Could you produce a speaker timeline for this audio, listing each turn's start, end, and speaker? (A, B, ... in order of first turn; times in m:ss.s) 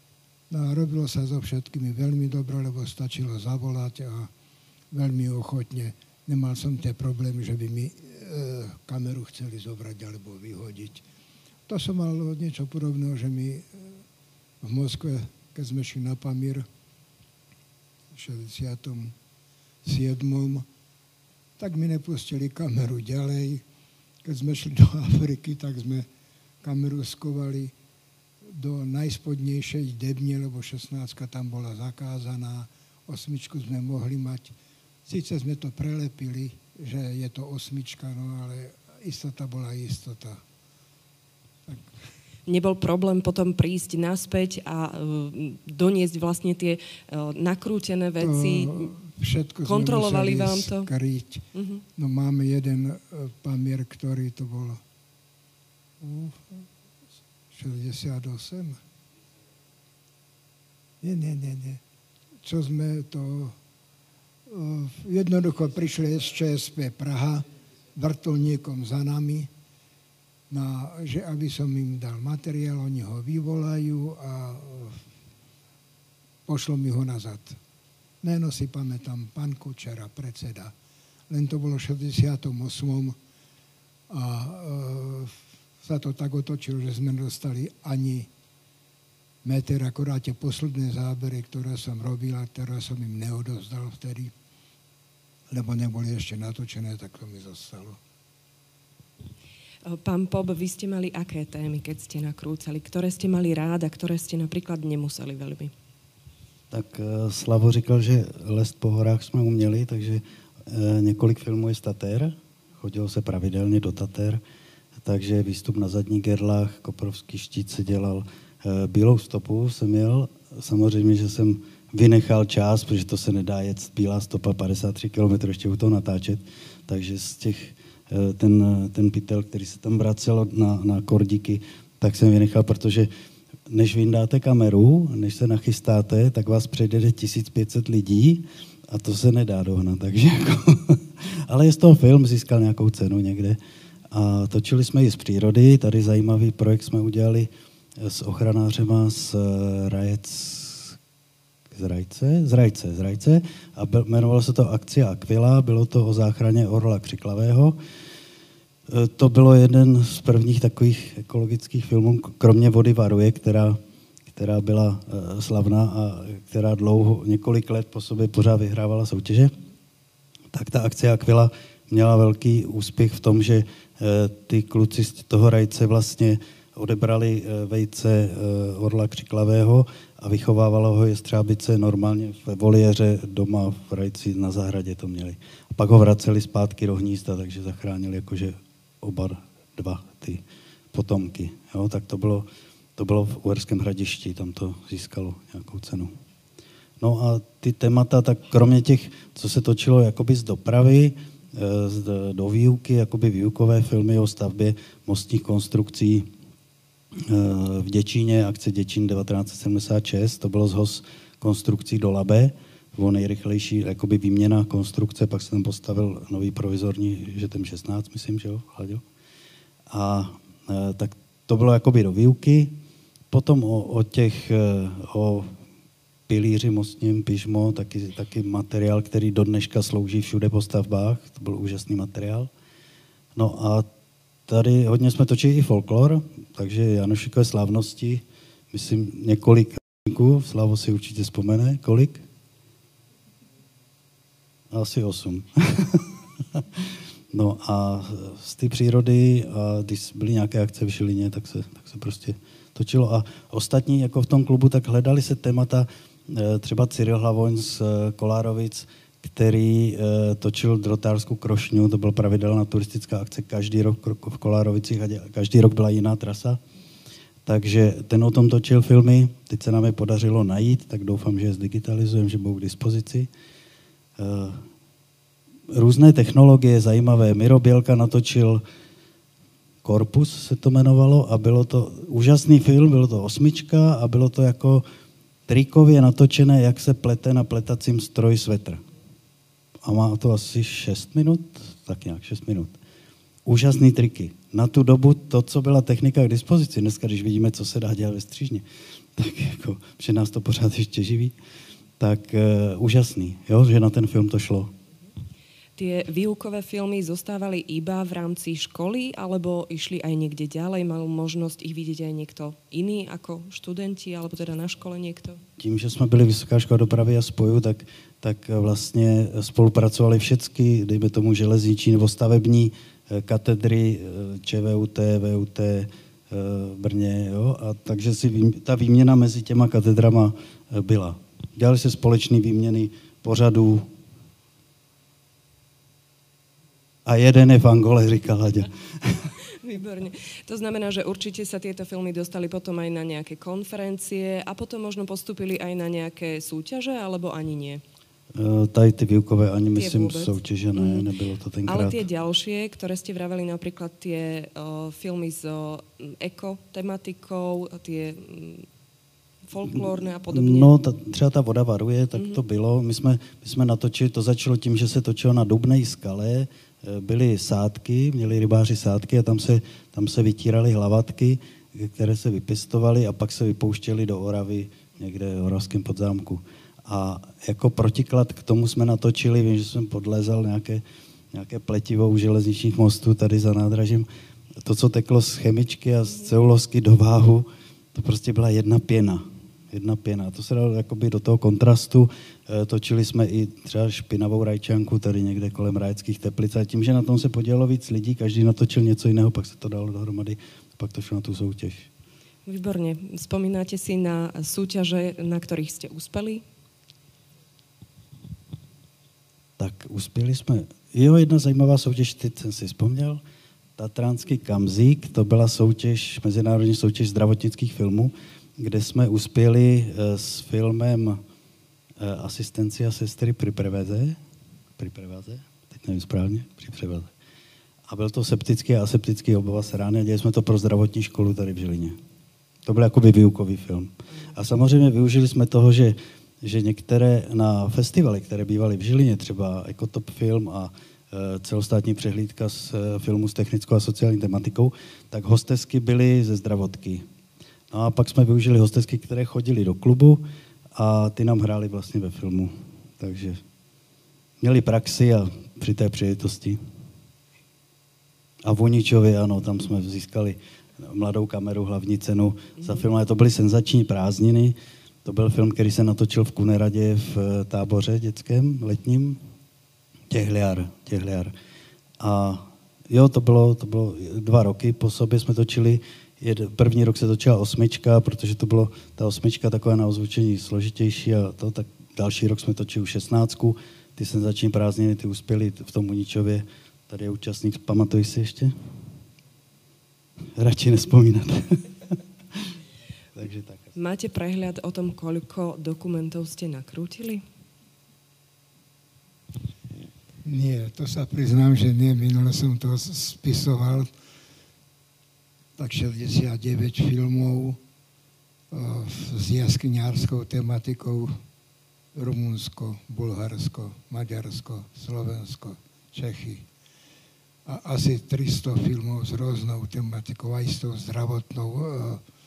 0:00.5-0:04.3 A
0:04.9-0:11.0 A
0:11.7-0:14.0 A
0:14.6-0:16.6 A
0:18.1-0:19.1 A
0:19.8-0:20.6 A
0:21.6-0:23.6 A
0:24.2-0:26.1 A
0:26.6-0:27.7 A
0:28.5-0:34.5 A
0:35.0-0:40.4 A
0:42.5-0:48.9 B
0:48.2-0:54.8 A
0:49.6-0:50.9 B
0:51.5-0:51.8 B
0:56.0-0:56.6 A
0:57.5-0:58.8 A
1:01.0-1:01.8 A
1:02.4-1:03.6 A
1:04.5-1:09.5 A
1:10.5-1:15.0 A
1:16.4-1:17.6 A
1:18.2-1:20.7 A
1:21.3-1:23.2 A
1:24.1-1:28.3 A
1:29.4-1:34.3 A
1:35.5-1:38.0 A
1:39.8-1:45.7 B
1:46.7-1:54.4 C
1:55.0-2:13.1 C
2:13.7-2:23.6 C
2:24.1-2:31.0 C
2:31.7-2:37.8 C
2:38.9-2:43.8 C
2:44.3-2:49.5 C
2:50.5-3:12.4 C
3:13.0-3:16.1 C
3:17.0-3:26.3 C
3:27.2-3:39.0 C
3:39.9-3:42.8 C
3:43.3-3:45.5 C
3:46.3-3:52.5 C
3:53.3-3:53.9 C
3:54.5-4:02.2 C
4:04.7-4:26.6 C
4:27.4-4:33.3 C
4:34.2-4:34.6 C
4:35.7-4:38.6 C
4:39.8-4:44.8 C
4:45.5-4:48.8 C
4:49.8-4:52.7 C
4:53.4-4:58.6 C
4:59.2-5:01.4 C
5:02.0-5:04.7 C
5:05.8-5:15.4 B
5:15.6-5:33.9 C
5:37.0-5:39.2 C
5:39.5-5:47.8 B
5:48.3-5:52.0 C
5:49.8-5:51.0 B
5:51.6-5:58.7 B
5:59.5-6:00.7 B
6:00.3-6:24.1 C
6:02.2-6:02.4 B
6:24.6-6:41.9 C
6:42.4-6:46.4 B
6:49.6-6:53.2 C
6:53.8-7:01.2 C
7:02.0-7:04.2 C
7:04.8-7:07.1 C
7:07.9-7:12.0 C
7:12.6-7:27.0 C
7:27.7-7:30.2 C
7:30.7-7:33.4 C
7:34.4-7:36.6 C
7:38.4-7:49.2 C
7:50.1-7:51.3 C
7:52.0-8:08.5 C
8:10.4-8:12.5 C
8:13.1-8:13.7 C
8:13.7-8:17.2 B
8:20.2-8:23.9 A
8:25.6-8:27.6 A
8:28.5-8:31.1 A
8:31.9-8:36.5 A
8:37.4-8:42.0 A